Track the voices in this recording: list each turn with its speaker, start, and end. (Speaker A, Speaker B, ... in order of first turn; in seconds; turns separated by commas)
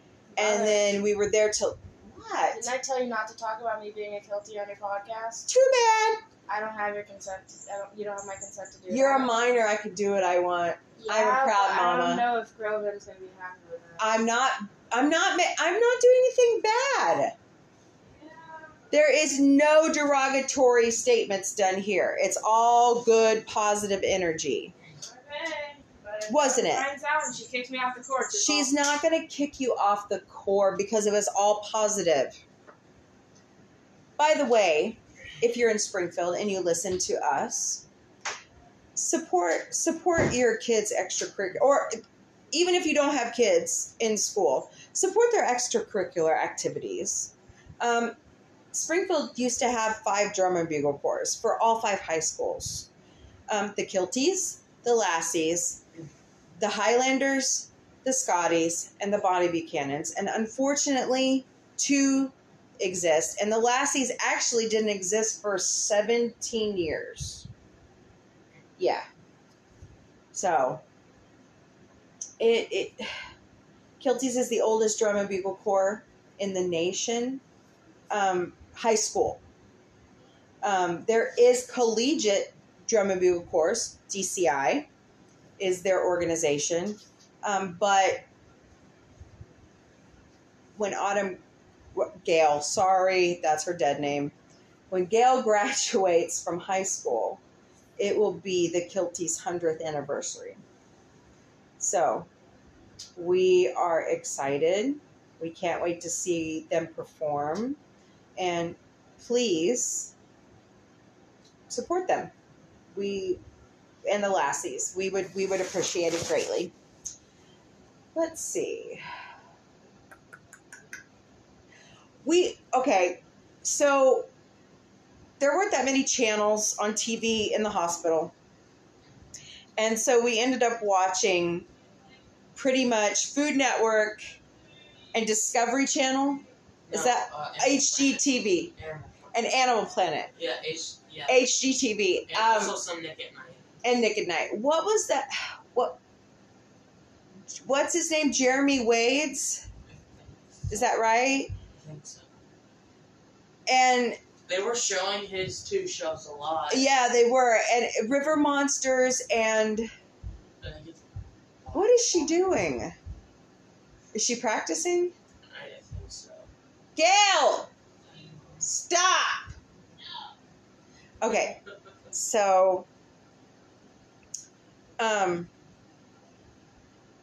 Speaker A: 0.3-0.9, Speaker B: 0.4-2.7, Speaker A: 2.5-5.5, Speaker B: 5.5-6.2, Speaker A: 6.5-9.5, Speaker B: 8.9-12.2, Speaker A: 11.0-14.2, Speaker B: 14.0-17.4, Speaker A: 18.2-18.8, Speaker B: 18.9-24.7, Speaker A: 25.0-28.7, Speaker B: 26.3-26.9, Speaker B: 28.4-32.4, Speaker B: 34.2-37.9, Speaker B: 39.0-42.0, Speaker B: 42.5-48.2, Speaker B: 48.7-52.9, Speaker B: 53.5-55.8, Speaker B: 56.6-67.5, Speaker B: 68.8-69.1, Speaker B: 70.3-70.8, Speaker B: 72.4-73.2, Speaker B: 74.0-77.4, Speaker B: 78.1-79.4, Speaker B: 80.6-84.9, Speaker B: 85.6-88.2, Speaker B: 90.8-91.4, Speaker B: 91.9-94.3, Speaker B: 94.9-97.4, Speaker B: 98.0-100.6, Speaker B: 101.8-102.3, Speaker B: 103.2-107.8, Speaker B: 108.4-110.1, Speaker B: 111.7-112.3, Speaker B: 112.9-113.4, Speaker B: 114.1-116.7, Speaker B: 118.2-119.0, Speaker B: 122.2-124.3, Speaker B: 125.4-128.3, Speaker B: 129.8-131.7, Speaker B: 132.6-134.3, Speaker B: 135.1-138.7, Speaker C: 136.9-139.5, Speaker B: 139.3-140.3, Speaker C: 140.3-141.4, Speaker B: 141.3-142.8, Speaker C: 142.3-143.7, Speaker B: 143.8-146.0, Speaker B: 147.5-149.7, Speaker C: 149.9-151.0, Speaker B: 150.7-151.5, Speaker C: 151.7-152.4, Speaker B: 153.7-154.2, Speaker C: 154.5-156.9, Speaker B: 156.7-159.9, Speaker C: 160.6-162.4, Speaker B: 161.7-162.9, Speaker B: 164.1-165.1, Speaker C: 165.5-166.5, Speaker B: 167.0-167.7, Speaker C: 168.0-168.6, Speaker B: 168.6-169.5, Speaker B: 171.2-172.9, Speaker B: 175.0-175.5